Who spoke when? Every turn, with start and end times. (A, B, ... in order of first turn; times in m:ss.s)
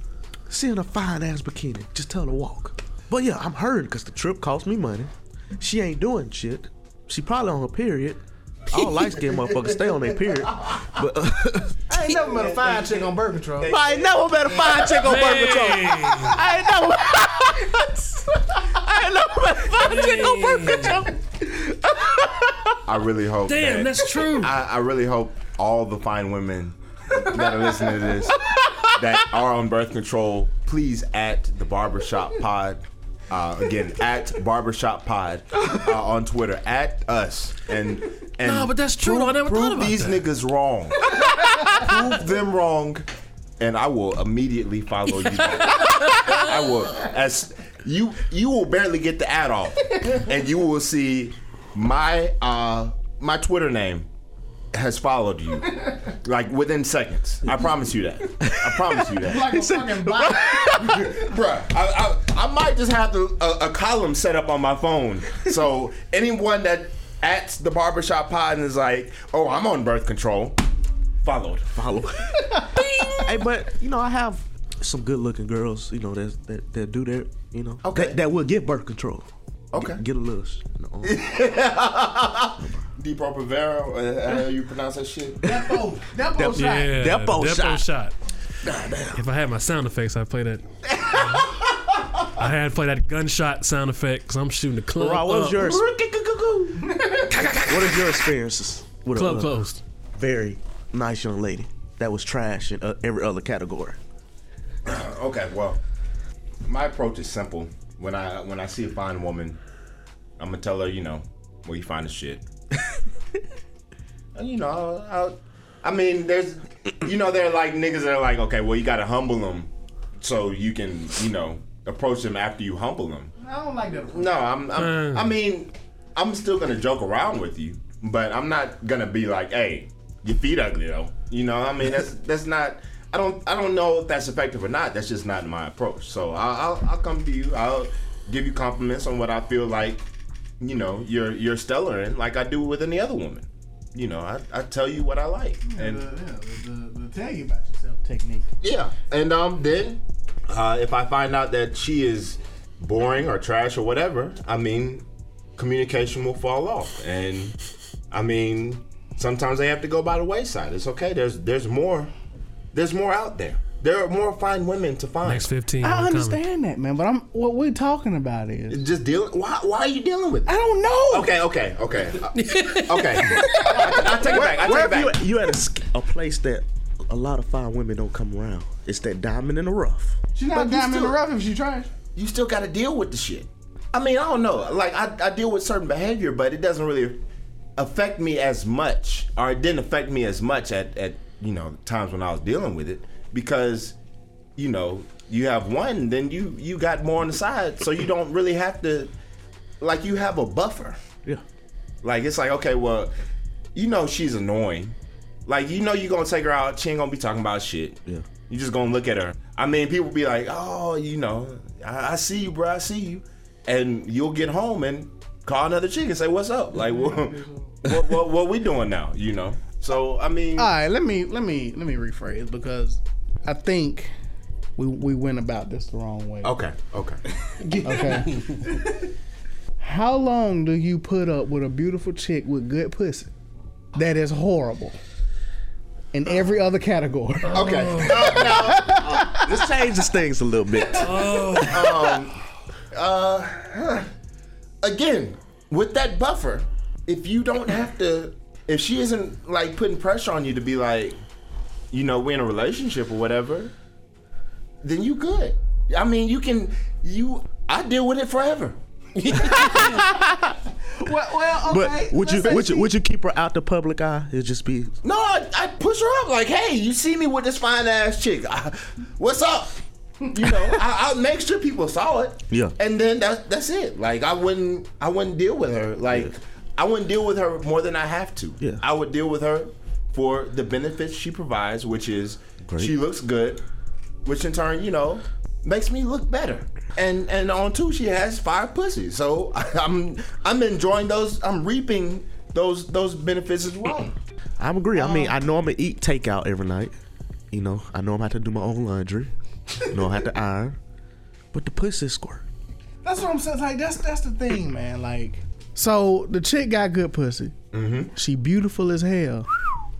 0:00.5-0:11.8 A
0:09.0-0:09.9 B
0:11.9-0:13.7 C
0:12.1-0:15.0 B
0:13.6-0:17.9 A
0:15.0-0:16.4 D
0:18.6-0:22.8 A
0:19.7-0:21.0 D
0:22.8-0:43.1 B
0:23.5-0:24.5 D
0:38.4-0:40.2 D
0:43.6-0:54.1 B
0:54.7-0:59.6 B
0:58.3-1:01.2 A
0:59.2-1:00.8 C
1:00.8-1:10.6 B
1:11.2-1:11.7 B
1:11.8-1:12.5 A
1:12.4-1:13.2 C
1:13.2-1:21.2 A
1:17.8-1:18.2 B
1:19.7-1:20.0 B
1:21.0-1:25.6 B
1:22.6-1:22.9 A
1:25.4-1:27.0 C
1:26.4-1:27.9 A
1:26.4-1:28.1 D
1:28.6-1:29.2 A
1:29.2-1:30.6 D
1:31.0-1:32.4 B
1:32.3-1:35.7 D
1:35.0-1:35.9 A
1:35.6-1:37.6 B
1:36.8-1:37.3 C
1:37.4-1:39.6 A
1:39.1-1:39.8 D
1:40.1-1:44.0 A
1:44.8-1:45.8 B
1:46.7-1:49.6 B
1:50.4-1:52.4 B
1:54.4-2:03.3 B
2:03.4-2:04.5 C
2:04.1-2:20.0 B
2:04.8-2:05.4 D
2:20.6-2:26.1 B
2:25.6-2:28.5 C
2:28.6-2:35.0 B
2:35.6-2:37.6 B
2:38.1-2:42.1 B
2:42.7-2:45.5 B
2:45.2-2:46.4 D
2:45.8-2:48.8 C
2:48.7-2:50.6 B
2:50.5-2:51.3 C
2:51.1-2:55.2 B
2:52.4-2:53.4 D
2:53.4-2:54.0 C
2:53.9-3:00.2 A
3:00.4-3:01.9 C
3:00.5-3:01.2 B
3:02.1-3:07.2 B
3:07.8-3:14.0 B
3:14.6-3:19.1 B
3:19.8-3:21.0 B
3:22.0-3:23.1 B
3:23.8-3:40.7 B
3:36.8-3:37.4 C
3:40.6-3:44.1 C
3:44.8-3:46.5 C
3:46.4-3:47.2 B
3:47.6-3:48.6 D
3:47.8-3:49.0 C
3:49.8-3:53.3 C
3:54.0-3:55.0 C
3:56.1-3:59.6 C
3:57.5-3:58.6 D
3:57.5-3:59.4 B
3:59.3-4:01.1 A
4:01.0-4:02.1 D
4:01.6-4:02.4 B
4:02.9-4:04.1 B
4:04.8-4:11.2 B
4:11.9-4:13.7 B
4:14.8-4:18.8 B
4:19.2-4:20.0 D
4:19.4-4:19.9 B
4:19.8-4:20.6 A
4:21.0-4:22.9 C
4:21.6-4:25.0 A
4:22.4-4:22.7 B
4:25.0-4:43.6 B
4:32.5-4:32.8 A
4:36.1-4:36.3 A
4:42.6-4:43.0 A
4:44.2-4:54.1 B
4:54.6-4:56.9 A
4:55.0-4:55.3 C
4:57.5-5:00.8 A
5:01.5-5:02.4 A
5:03.0-5:07.5 C
5:07.7-5:08.1 B
5:08.1-5:09.5 C